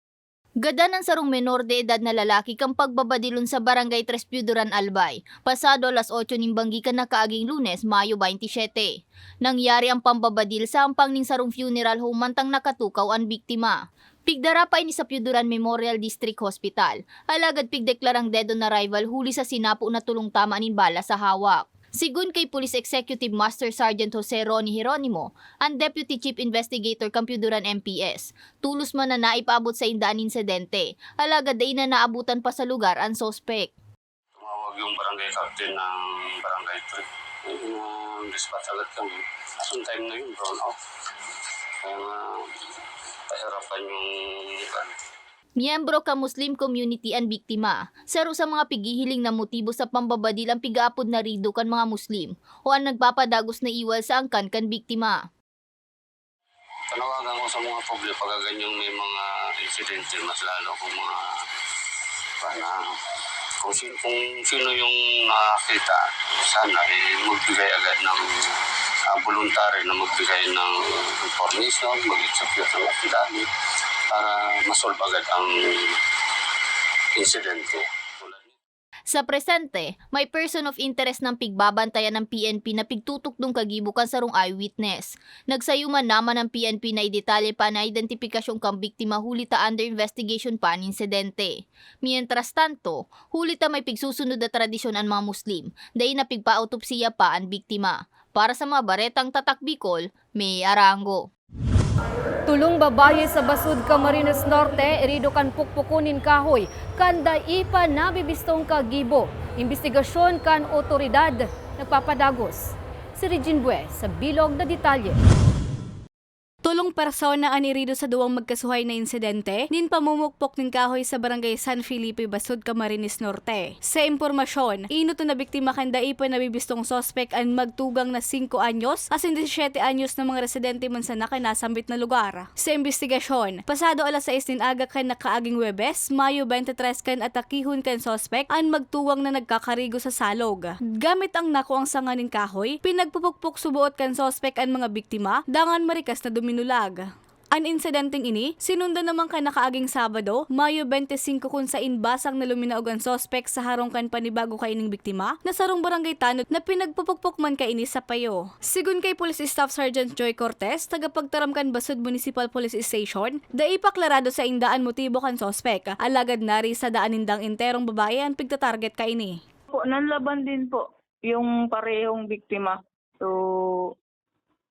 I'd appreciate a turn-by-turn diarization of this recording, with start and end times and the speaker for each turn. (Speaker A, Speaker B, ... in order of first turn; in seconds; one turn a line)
Speaker A: 0.6-33.7
Speaker B: 34.4-40.7
Speaker B: 41.8-42.2
Speaker B: 43.3-44.0
Speaker A: 45.6-55.2
Speaker B: 56.9-61.1
Speaker B: 62.4-62.8
Speaker B: 63.6-66.0
Speaker B: 66.5-68.2
Speaker B: 69.1-70.7
Speaker B: 71.2-73.5
Speaker B: 74.1-75.5
Speaker B: 77.2-78.5
Speaker A: 79.1-101.2
Speaker C: 102.5-115.2
Speaker D: 116.6-147.0
Speaker D: 147.5-169.3
Speaker E: 169.7-173.9